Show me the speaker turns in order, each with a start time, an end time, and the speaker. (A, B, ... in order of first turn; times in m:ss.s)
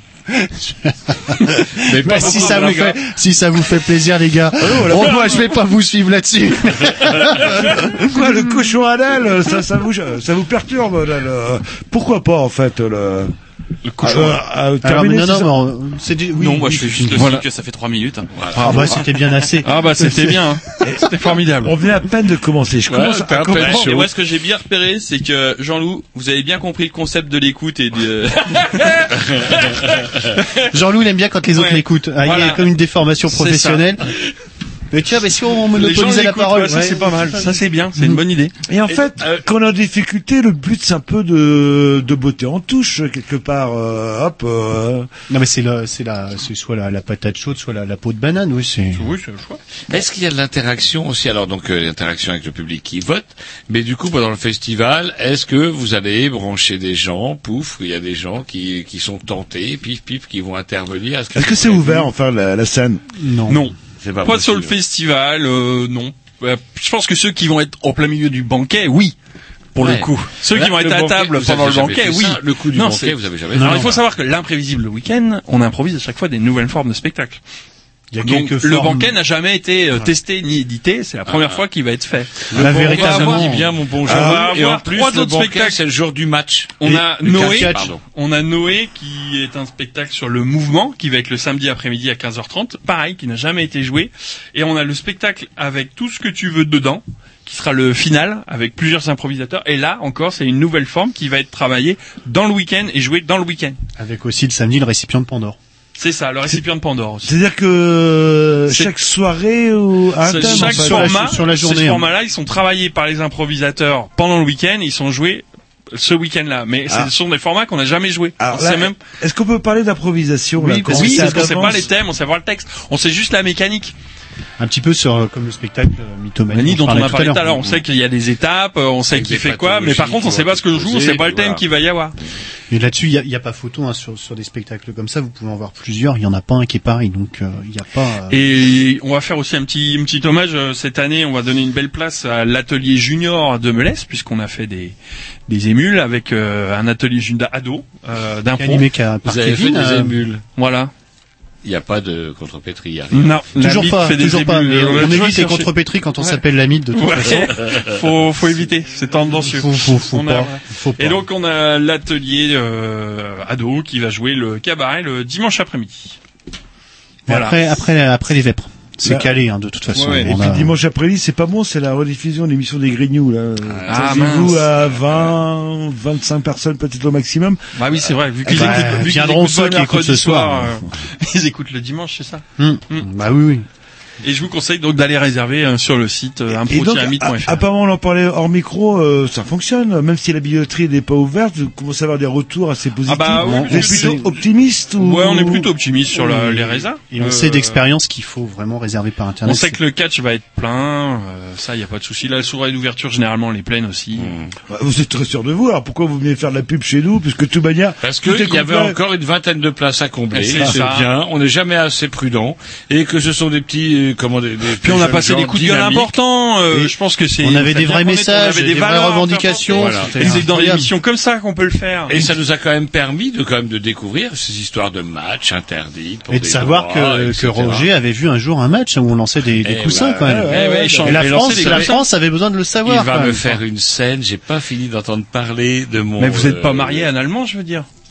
0:00.4-0:07.9 A
0:01.9-0:02.8 B
0:02.0-0:03.0 C
0:04.6-0:05.4 D
0:07.4-0:13.3 D
0:14.0-0:15.5 D
0:14.8-0:17.4 A
0:16.4-0:18.3 E
0:17.2-0:17.4 C
0:18.4-0:18.7 B
0:18.6-0:19.0 C
0:18.6-0:20.4 A
0:19.6-0:21.7 C
0:20.8-0:24.1 D
0:22.9-0:24.1 B
0:23.6-0:28.8 E
0:30.7-0:34.1 A
0:31.5-0:32.7 C
0:33.3-0:33.9 C
0:34.9-0:38.2 A
0:35.7-0:38.5 C
0:38.7-0:45.1 D
0:45.3-0:49.1 A
0:48.9-0:49.6 C
0:49.9-1:02.1 B
1:01.4-1:03.0 D
1:03.2-1:03.7 A
1:03.5-1:09.2 C
1:04.0-1:04.8 B
1:09.8-1:17.4 C
1:09.8-1:14.0 B
1:13.5-1:14.0 A
1:18.1-1:19.2 A
1:18.2-1:25.8 C
1:21.3-1:21.6 B
1:22.5-1:28.0 B
1:22.6-1:23.7 A
1:24.1-1:24.5 D
1:26.8-1:43.8 C
1:27.3-1:27.9 A
1:44.0-1:45.6 A
1:46.0-1:47.3 C
1:47.3-1:51.2 D
1:50.2-1:59.0 C
1:50.3-1:52.1 A
1:58.4-2:01.9 D
2:00.6-2:01.8 A
2:00.9-2:03.9 C
2:04.6-2:07.8 A
2:06.5-2:12.2 C
2:09.1-2:11.6 B
2:12.7-2:18.5 A
2:18.3-2:25.0 C
2:25.5-2:28.9 C
2:28.6-2:30.2 A
2:29.2-2:30.4 B
2:30.6-2:30.9 C
2:31.6-2:33.4 B
2:33.1-2:36.4 C
2:33.5-2:37.6 A
2:36.9-2:46.2 C
2:39.3-2:41.2 A
2:47.3-2:47.8 C
2:47.3-2:50.7 A
2:49.9-2:50.3 C
2:50.2-2:57.6 D
2:53.6-2:55.3 B
2:53.9-2:54.6 C
2:57.8-3:03.1 C
2:58.4-2:58.9 D
2:58.5-3:00.8 A
3:02.6-3:03.7 A
3:04.2-3:07.6 C
3:06.6-3:15.7 D
3:13.1-3:14.2 C
3:13.3-3:14.3 A
3:15.0-3:17.8 C
3:16.1-3:19.8 A
3:19.4-3:24.3 C
3:24.2-3:24.5 B
3:24.7-3:29.0 D
3:28.0-3:36.1 B
3:30.3-3:31.1 C
3:30.6-3:30.8 D
3:34.8-3:42.3 C
3:37.4-3:41.0 A
3:39.7-3:40.4 B
3:42.1-3:47.9 B
3:46.3-3:53.4 A
3:49.6-3:51.9 B
3:50.2-3:50.9 D
3:50.5-3:52.0 C
3:52.9-3:53.5 C
3:52.9-3:57.1 B
3:56.2-3:57.9 C